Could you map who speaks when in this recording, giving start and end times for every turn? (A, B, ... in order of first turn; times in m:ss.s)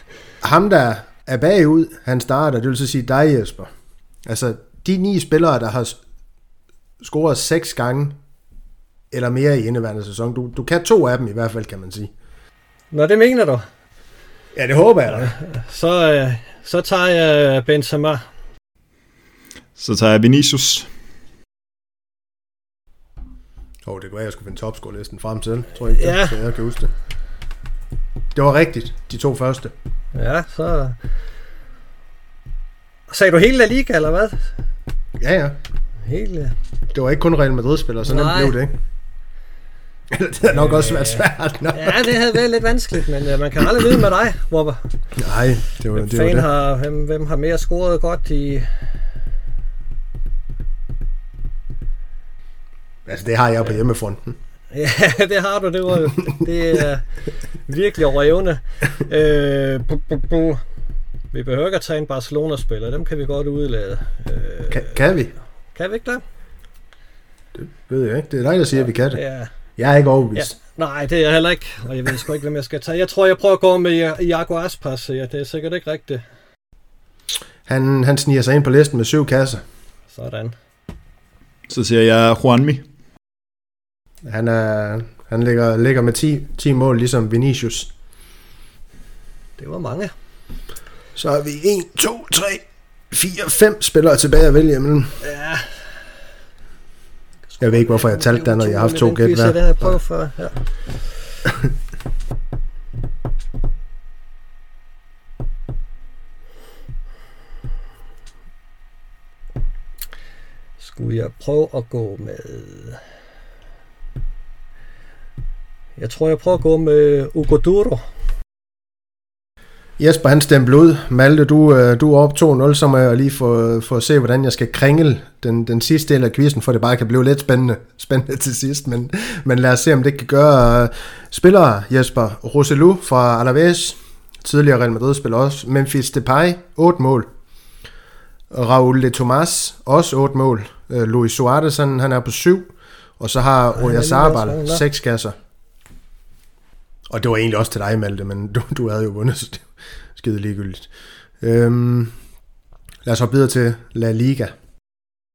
0:00.4-0:03.7 A
0:04.2-0:06.0 A
0:07.0-0:08.2 A
0:09.1-0:12.1 A
0:12.9-0:13.6 B
0:14.5-0:15.3 A
0:15.1-0:18.2 B
0:19.8-0:20.9 C
0:23.8-0:26.9 A
0:25.9-0:26.4 B
0:28.3-0:29.7 A
0:30.1-0:31.0 B
0:33.1-0:34.4 B
0:35.2-0:35.6 A
0:36.0-0:36.5 B
0:36.9-0:38.7 A
0:38.0-0:38.5 B
0:40.1-0:42.2 A
0:40.6-0:44.8 B
0:45.2-0:46.5 A
0:45.9-0:48.7 B
0:53.0-0:54.4 A
0:54.7-0:57.1 B
0:57.6-1:00.6 B
1:01.3-1:04.9 B
1:04.7-1:05.3 A
1:05.7-1:06.2 B
1:07.6-1:09.2 A
1:09.1-1:09.5 B
1:09.8-1:10.6 A
1:10.4-1:16.2 B
1:17.6-1:19.6 A
1:20.1-1:20.6 B
1:21.7-1:22.8 C
1:24.2-1:27.9 A
1:29.6-1:30.1 B
1:31.2-1:35.2 A
1:35.2-1:35.8 B
1:37.5-1:40.6 B
1:37.6-1:39.9 A
1:50.8-1:53.0 B
1:56.0-1:58.0 B
2:00.0-2:17.3 A
2:18.5-2:25.3 A
2:23.8-2:24.8 B
2:27.1-2:30.9 A
2:31.4-2:32.1 A
2:33.0-2:34.5 A